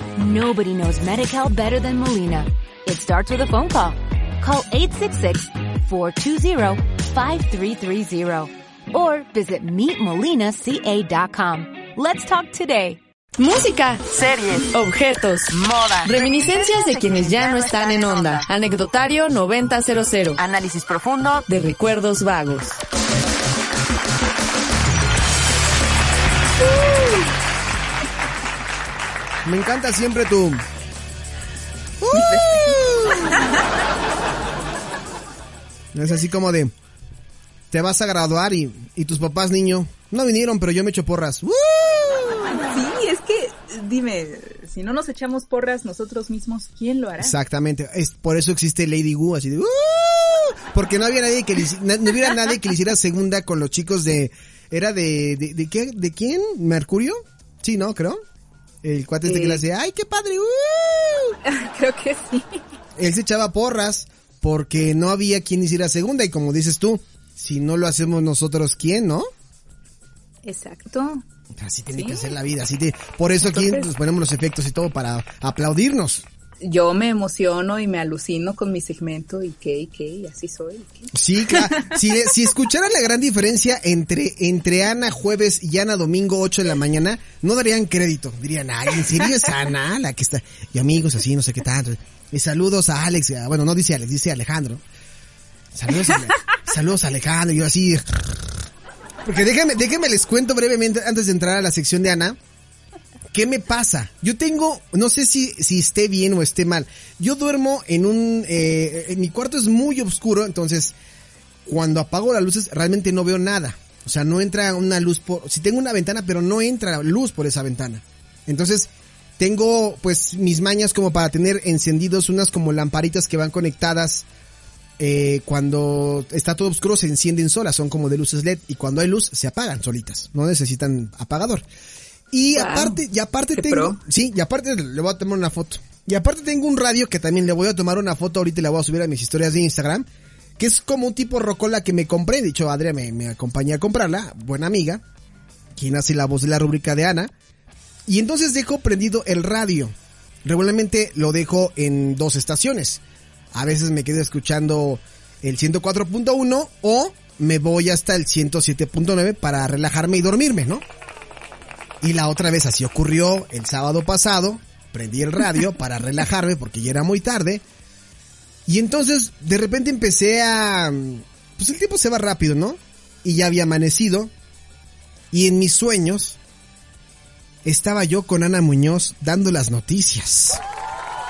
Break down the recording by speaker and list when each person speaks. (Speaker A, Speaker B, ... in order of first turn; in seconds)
Speaker A: 0.1-13.0
Speaker B: 13.4-20.4, 21.5-22.8
Speaker C: 14.1-14.7, 15.5-16.6, 17.2-18.4, 20.4-21.5
Speaker D: 29.4-30.6, 32.0-33.4, 35.9-36.7, 37.7-42.6, 47.2-58.2, 58.8-61.4, 63.0-69.3, 71.5-76.2, 81.1-94.8, 95.7-98.6, 99.2-102.4, 103.3-111.0, 111.6-124.2, 125.0-131.7, 132.3-140.1, 140.6-145.0, 145.7-147.3, 148.1-153.0, 153.5-160.8, 162.0-167.6, 168.7-174.3, 175.3-176.4, 177.6-180.6
Speaker E: 32.1-33.6, 42.5-47.3, 59.2-59.6, 61.4-62.6, 70.4-71.2, 71.9-72.3, 73.4-73.9, 76.6-82.0, 132.5-133.0, 133.5-134.0